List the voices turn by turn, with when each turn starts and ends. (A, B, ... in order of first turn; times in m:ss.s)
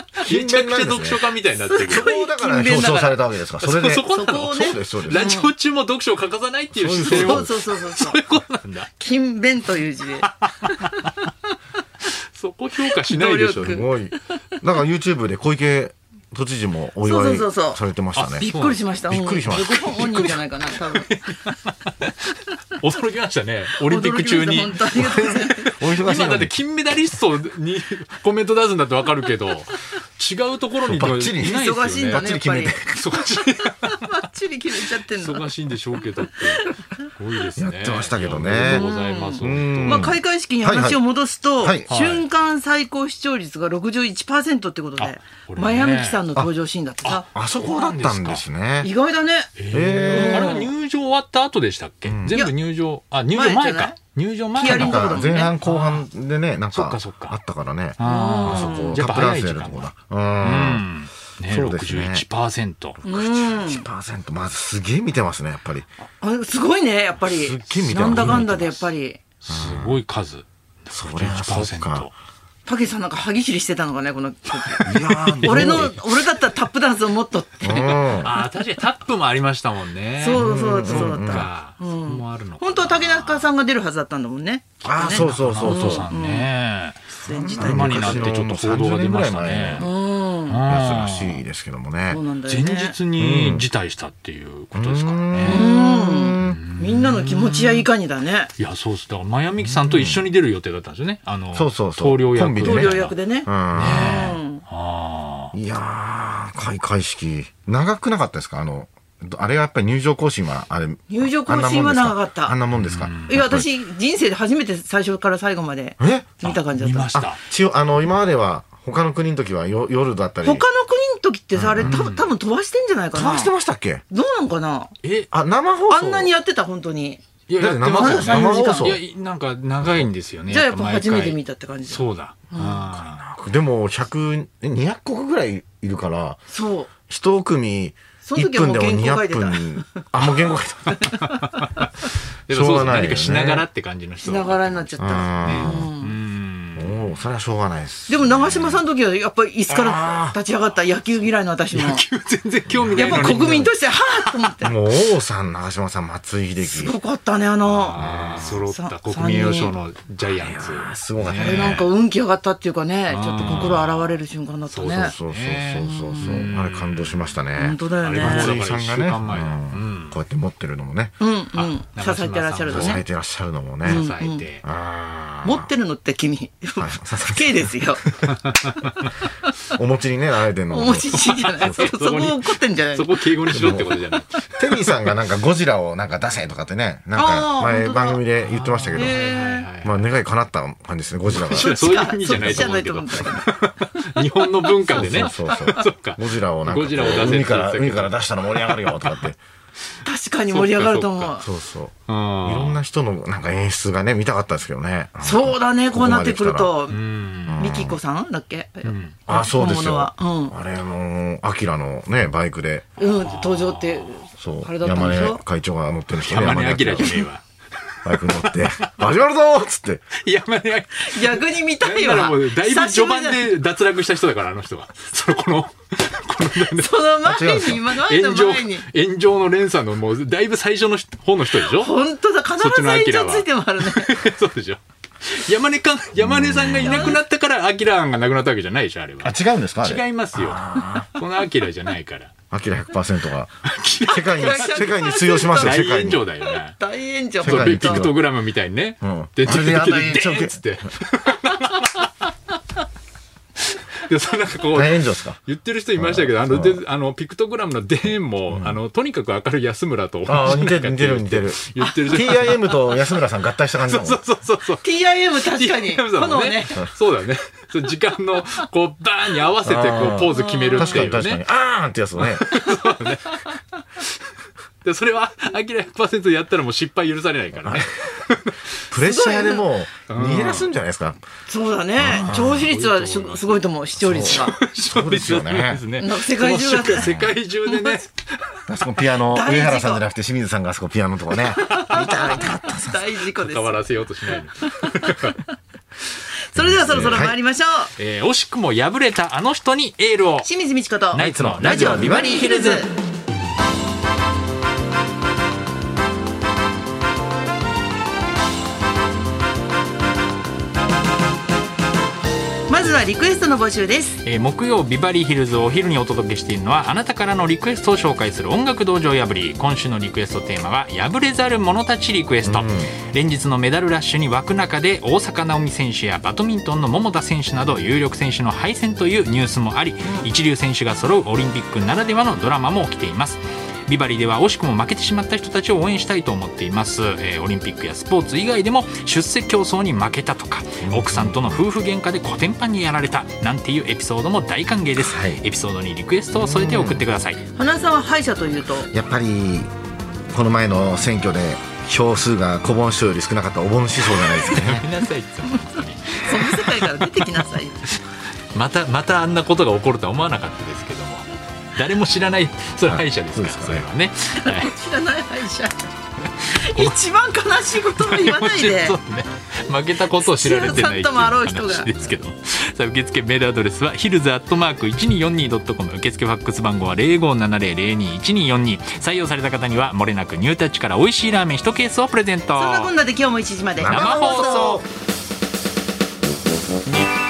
0:00.2-0:01.2 A
0:00.2-0:02.1 B
0:01.6-0:03.2 C
0:01.8-0:05.4 A
0:03.6-0:08.9 B
0:04.1-0:05.5 C
0:06.7-0:07.5 A
0:07.0-0:08.2 C
0:09.0-0:11.2 C
0:10.2-0:11.0 B
0:12.3-0:13.9 B
0:12.8-0:14.1 C
0:13.6-0:18.5 A
0:17.0-0:17.8 C
0:18.1-0:18.8 B
0:18.4-0:21.1 C
0:19.1-0:20.3 A
0:19.9-0:32.2 B
0:23.8-0:25.7 C
0:25.8-0:26.5 A
0:30.8-0:32.9 A
0:31.4-0:32.8 C
0:32.8-0:34.1 B
0:33.6-0:35.4 C
0:35.0-0:40.2 B
0:36.4-0:36.7 C
0:37.6-0:38.9 A
0:38.6-0:47.2 C
0:39.4-0:41.0 A
0:41.6-0:41.9 A
0:41.9-0:42.2 B
0:45.0-0:46.2 B
0:47.0-0:48.4 B
0:47.3-0:48.9 A
0:48.8-0:49.5 C
0:49.6-0:56.1 B
0:49.7-0:50.6 A
0:50.1-0:50.7 C
0:52.0-0:52.4 A
0:52.3-0:52.5 C
0:53.3-0:54.0 C
0:54.5-0:55.5 C
0:54.7-1:00.8 A
0:56.7-0:57.4 B
0:58.0-1:03.0 B
0:58.0-0:59.1 C
1:01.4-1:02.2 A
1:03.0-1:05.9 A
1:03.0-1:03.8 C
1:06.2-1:09.2 C
1:07.2-1:08.8 A
1:08.0-1:08.5 B
1:09.4-1:10.5 B
1:09.5-1:10.0 A
1:10.9-1:12.1 A
1:11.1-1:12.1 B
1:12.6-1:14.9 C
1:14.8-1:16.0 B
1:14.8-1:16.0 A
1:15.4-1:18.2 C
1:17.6-1:18.4 A
1:18.1-1:23.5 B
1:20.2-1:26.5 C
1:20.3-1:21.5 A
1:24.8-1:26.1 A
1:25.0-1:27.0 B
1:27.1-1:28.3 C
1:27.2-1:29.9 A
1:27.6-1:29.9 B
1:29.8-1:30.6 C
1:30.5-1:31.4 B
1:30.6-1:32.2 A
1:32.1-1:32.9 C
1:32.4-1:35.7 B
1:33.2-1:33.7 A
1:34.7-1:36.6 A
1:35.4-1:38.5 C
1:36.4-1:37.9 B
1:38.6-1:43.2 B
1:39.6-1:40.2 A
1:41.5-1:44.4 A
1:42.6-1:44.6 C
1:43.7-1:45.5 B
1:45.5-1:53.7 A
1:51.1-1:52.6 C
1:52.8-1:53.4 B
1:53.3-1:57.1 C
1:56.0-1:56.4 A
1:56.4-1:57.4 B
1:57.1-2:00.6 A
2:00.4-2:03.5 C
2:01.5-2:02.0 A
2:01.8-2:02.3 B
2:03.1-2:04.0 A
2:04.1-2:04.9 C
2:05.0-2:05.3 B
2:05.3-2:06.3 A
2:05.9-2:07.2 C
2:07.5-2:13.2 B
2:07.6-2:09.0 A
2:07.9-2:08.9 C
2:10.5-2:12.9 C
2:12.8-2:16.4 A
2:16.5-2:16.9 C
2:17.1-2:21.0 A
2:18.2-2:20.2 C
2:20.9-2:21.7 C
2:21.2-2:21.9 B
2:22.5-2:27.2 B
2:22.5-2:23.6 A
2:24.2-2:26.1 C
2:25.0-2:25.9 A
2:26.8-2:28.8 A
2:28.1-2:32.0 C
2:29.7-2:30.4 A
2:31.7-2:34.5 B
2:32.7-2:33.4 A
2:32.9-2:34.8 C
2:34.6-2:36.9 A
2:36.6-2:39.7 C
2:37.6-2:41.9 B
2:38.0-2:38.6 A
2:40.2-2:41.8 A
2:41.4-2:45.2 C
2:43.1-2:47.4 B
2:43.4-2:43.7 A
2:44.9-2:51.1 A
2:45.8-2:46.5 C
2:47.6-2:48.6 C
2:48.0-2:50.2 B
2:51.2-2:53.0 C
2:51.5-2:53.0 B
2:52.7-2:54.0 A
2:53.8-2:54.6 B
2:53.8-2:54.4 C
2:54.6-2:55.7 A
2:55.4-2:58.0 C
2:56.8-2:57.7 A
2:58.2-2:59.1 B
2:59.7-3:01.9 A
3:00.7-3:03.8 C
3:01.1-3:05.1 B
3:03.5-3:04.0 A
3:04.6-3:09.2 A
3:07.1-3:08.2 C
3:08.4-3:10.1 B
3:08.9-3:09.7 C
3:09.8-3:12.7 A
3:11.3-3:19.3 B
3:11.6-3:15.6 C
3:14.9-3:19.4 A
3:20.0-3:21.5 C
3:20.5-3:21.3 B
3:21.4-3:26.7 A
3:22.1-3:22.8 B
3:25.2-3:27.0 C
3:26.9-3:27.7 B
3:27.4-3:28.0 A
3:27.6-3:30.5 C
3:28.8-3:29.2 B
3:29.3-3:32.9 A
3:33.0-3:35.4 C
3:33.2-3:34.1 B
3:34.4-3:37.2 A
3:36.2-3:39.1 B
3:38.0-3:40.0 A
3:40.2-3:47.2 B
3:41.0-3:43.5 C
3:46.7-3:48.8 C
3:47.2-3:47.8 A
3:47.7-3:52.0 B
3:51.6-3:54.2 C
3:52.6-4:02.3 B
3:56.2-3:57.2 A
3:56.8-3:57.2 C
3:59.2-4:01.1 A
4:02.5-4:06.2 A
4:03.6-4:04.8 B
4:04.3-4:05.8 C
4:05.5-4:06.8 B
4:06.4-4:08.1 C
4:07.4-4:08.2 A
4:07.4-4:12.1 B
4:09.0-4:10.6 A
4:13.7-4:23.0 B
4:14.7-4:15.4 A
4:16.0-4:16.8 A
4:18.5-4:18.8 A
4:20.2-4:24.2 A
4:21.8-4:22.4 C
4:23.8-4:24.8 B
4:24.8-4:26.8 C
4:25.4-4:31.4 B
4:29.6-4:32.5 A
4:30.3-4:31.1 C
4:32.2-4:34.1 B
4:34.8-4:38.5 B
4:37.6-4:37.8 A
4:38.9-4:41.2 A
4:39.0-4:39.7 C
4:40.1-4:40.7 B
4:41.5-4:44.6 C
4:42.0-4:42.7 A
4:42.0-4:43.6 B
4:44.0-4:45.8 A
4:44.1-4:48.6 B
4:46.0-4:48.0 C
4:48.7-4:53.1 A
4:49.3-4:50.0 C
4:51.6-4:53.9 C
4:51.6-4:52.1 B
4:53.2-4:55.4 B
4:54.6-4:55.1 C
4:56.5-4:57.9 C
4:56.5-4:57.4 A
4:58.0-5:00.5 B
5:00.4-5:02.9 C
5:01.1-5:02.9 B
5:01.2-5:02.1 A
5:12.7-5:14.2 C
5:14.2-5:47.4 B
5:22.4-5:22.9 A
5:40.8-5:41.6 A
5:45.0-5:45.4 A
5:46.3-5:47.1 A
5:47.5-5:48.9 C
5:48.9-5:49.7 A
5:50.3-5:54.9 A
5:54.1-5:57.3 B
5:56.1-5:57.9 C
5:58.5-6:04.8 B
6:02.8-6:03.8 A
6:04.4-6:05.7 C
6:06.4-6:07.0 B
6:06.4-6:09.0 C
6:07.7-6:22.9 B
6:10.2-6:11.9 C
6:22.6-6:24.8 C
6:23.8-6:24.9 A
6:23.9-6:24.8 B